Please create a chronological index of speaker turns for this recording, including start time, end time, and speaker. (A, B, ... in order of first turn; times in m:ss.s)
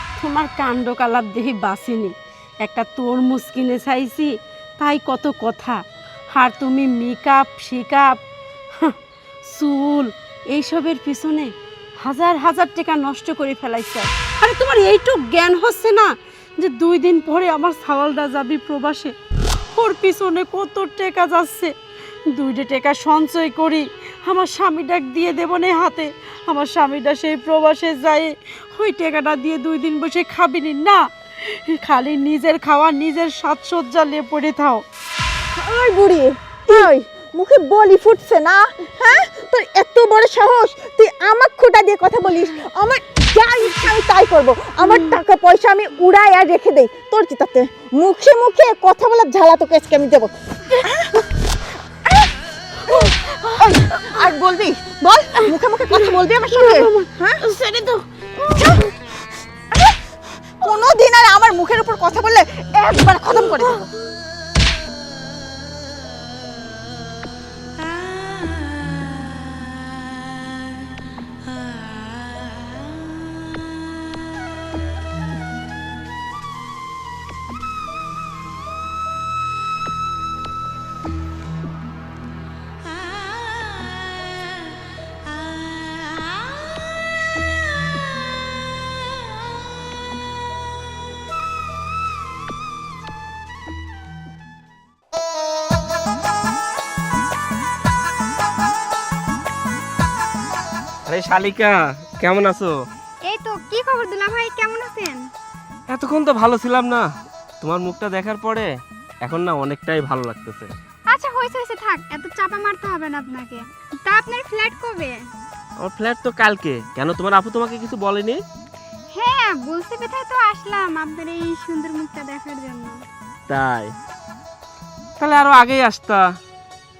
0:00.2-0:08.2 A
0:08.8-0:19.2 A
0:19.8-0:21.8 A
0:22.3-0:34.8 A
0:35.6-0:51.2 B
0:52.9-0:57.5 B
0:56.7-0:58.0 A
0:58.4-0:58.9 B
1:00.6-1:03.9 B
1:41.1-1:42.8 C
1:43.3-1:45.2 D
1:45.9-1:47.1 C
1:47.6-1:48.7 C
1:49.2-1:50.7 C
1:51.1-1:55.2 D
1:55.8-1:58.4 C
1:59.2-2:03.0 D
2:03.5-2:03.9 C
2:05.2-2:06.3 C